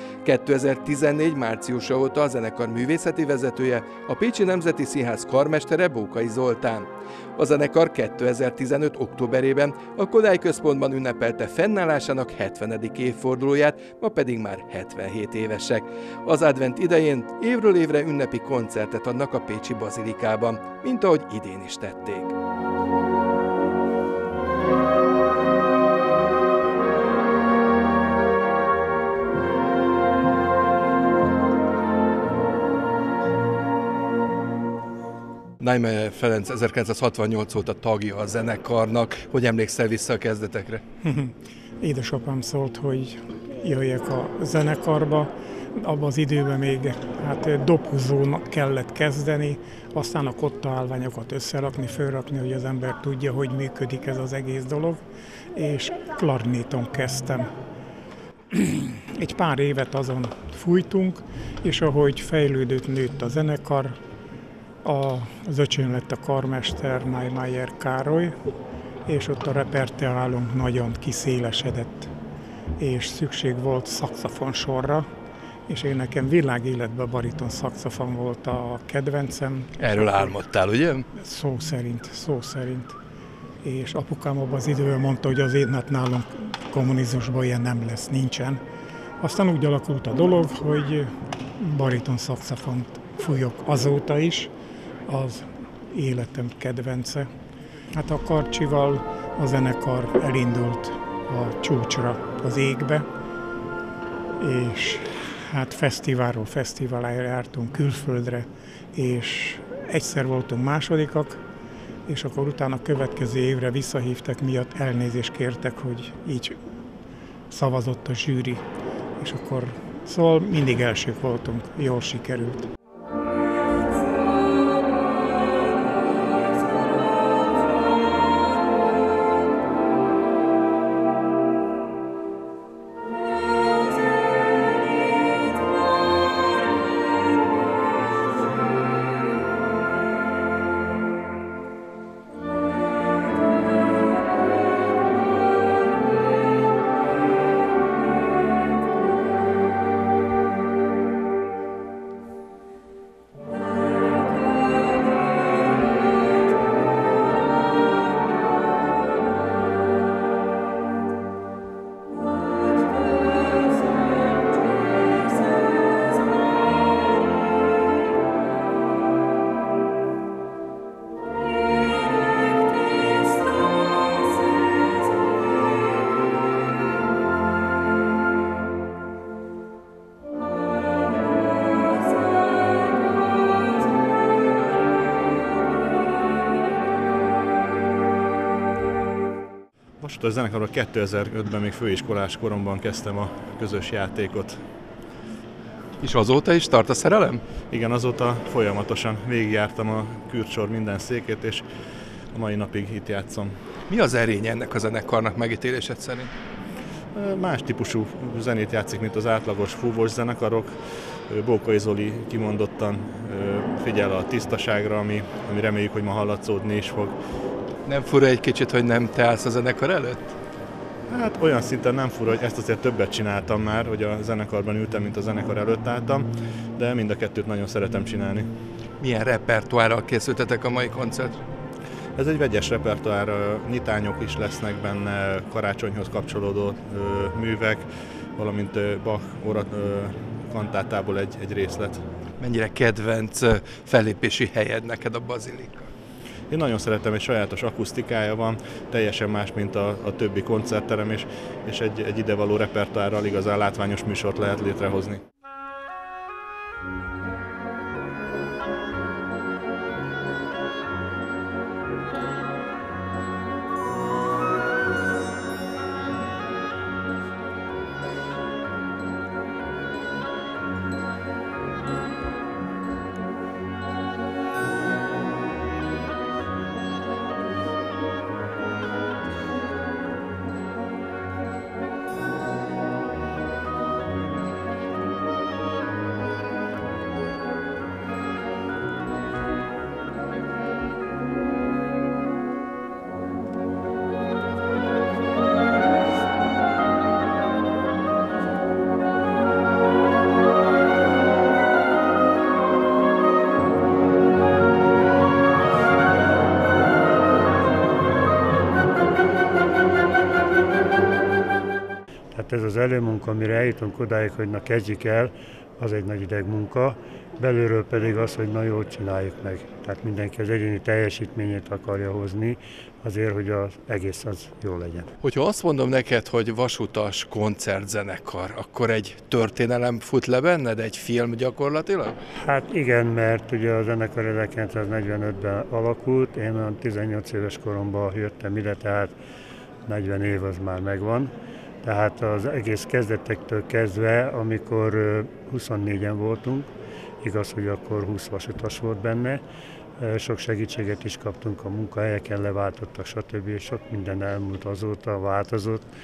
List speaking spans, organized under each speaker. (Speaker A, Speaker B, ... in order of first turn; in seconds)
Speaker A: 0.2-22.4, 35.6-40.8, 79.8-81.1, 196.0-197.4, 203.9-206.3, 217.9-220.3, 229.0-231.5, 242.4-245.9, 325.2-332.2
Speaker B: 41.0-55.0, 55.5-57.5, 58.5-64.0, 64.8-68.4, 69.1-72.1, 72.8-75.1, 75.7-80.2, 81.2-83.0, 83.6-88.6, 89.2-94.5, 95.1-97.3, 97.9-103.1, 104.4-111.4, 112.1-116.6, 117.5-118.7, 119.2-122.7
Speaker C: 190.0-194.6, 197.7-201.7, 202.3-203.6, 207.2-217.2, 221.1-228.5, 232.2-242.0, 246.5-255.2
Speaker D: 312.3-325.1, 332.3-339.1, 339.9-341.3, 341.8-346.7, 347.2-349.4, 350.0-355.9